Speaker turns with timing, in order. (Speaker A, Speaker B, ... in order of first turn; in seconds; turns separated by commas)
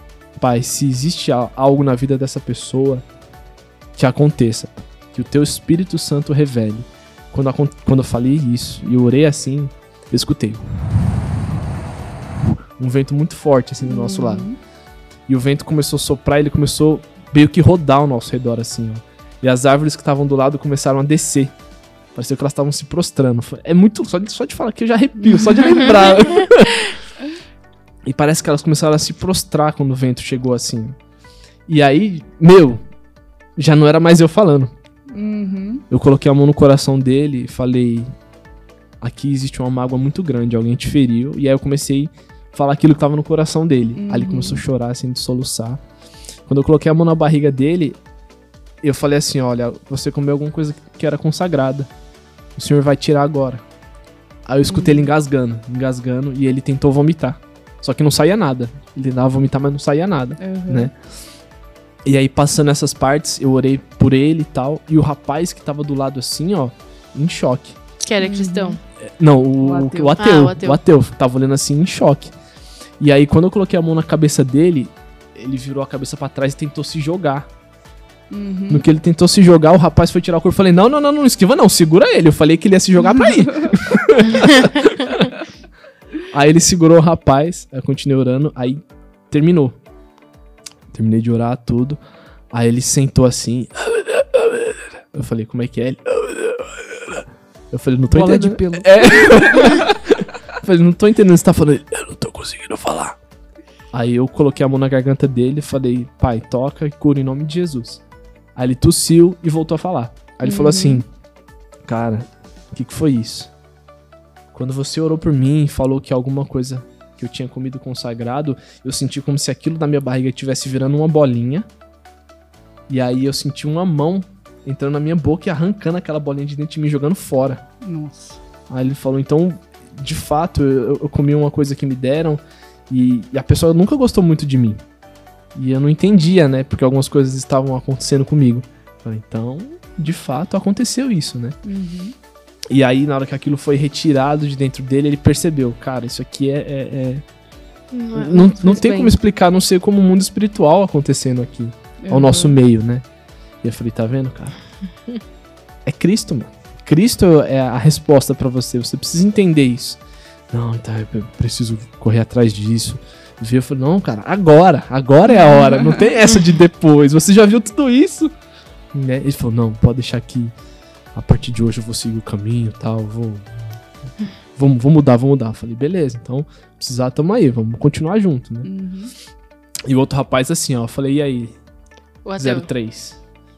Speaker A: 0.3-3.0, Speaker A: 3.9-10.6, Speaker A: 12.8-14.5, Speaker B: 13.8-14.6, Speaker A: 15.3-21.5, Speaker A: 22.1-26.9, Speaker B: 25.2-25.9, Speaker A: 28.0-31.0, Speaker A: 31.7-32.8, Speaker A: 33.6-34.7, Speaker B: 35.1-35.8, Speaker A: 35.9-38.1, Speaker A: 39.0-45.8, Speaker B: 44.0-44.6, Speaker A: 46.5-48.0, Speaker A: 48.8-51.9, Speaker A: 52.5-53.6, Speaker A: 54.5-60.9, Speaker B: 54.7-55.1, Speaker B: 60.4-60.9, Speaker A: 62.0-67.8, Speaker C: 68.0-68.8, Speaker B: 68.2-68.8, Speaker A: 69.0-72.3, Speaker B: 69.6-70.2, Speaker C: 70.2-70.8, Speaker A: 73.0-77.5, Speaker B: 78.3-78.8, Speaker A: 78.7-85.3, Speaker B: 83.1-83.4, Speaker A: 86.3-89.8, Speaker A: 90.9-92.0, Speaker A: 92.5-103.2, Speaker B: 98.1-99.9, Speaker A: 103.9-108.0, Speaker A: 108.5-111.0, Speaker B: 110.4-111.0, Speaker A: 111.8-113.5, Speaker A: 114.5-121.7, Speaker A: 122.9-127.6, Speaker B: 127.8-128.4, Speaker A: 128.7-134.8, Speaker A: 135.5-141.6, Speaker B: 141.6-142.1, Speaker A: 142.7-147.2, Speaker C: 147.9-149.1, Speaker A: 148.1-153.0, Speaker B: 152.0-152.6, Speaker A: 153.6-154.6, Speaker A: 155.8-160.0, Speaker A: 160.5-168.3, Speaker A: 168.9-170.5, Speaker A: 171.1-173.6, Speaker A: 174.6-178.7, Speaker B: 178.6-179.1, Speaker A: 179.9-181.6, Speaker C: 182.2-182.7, Speaker A: 182.4-183.2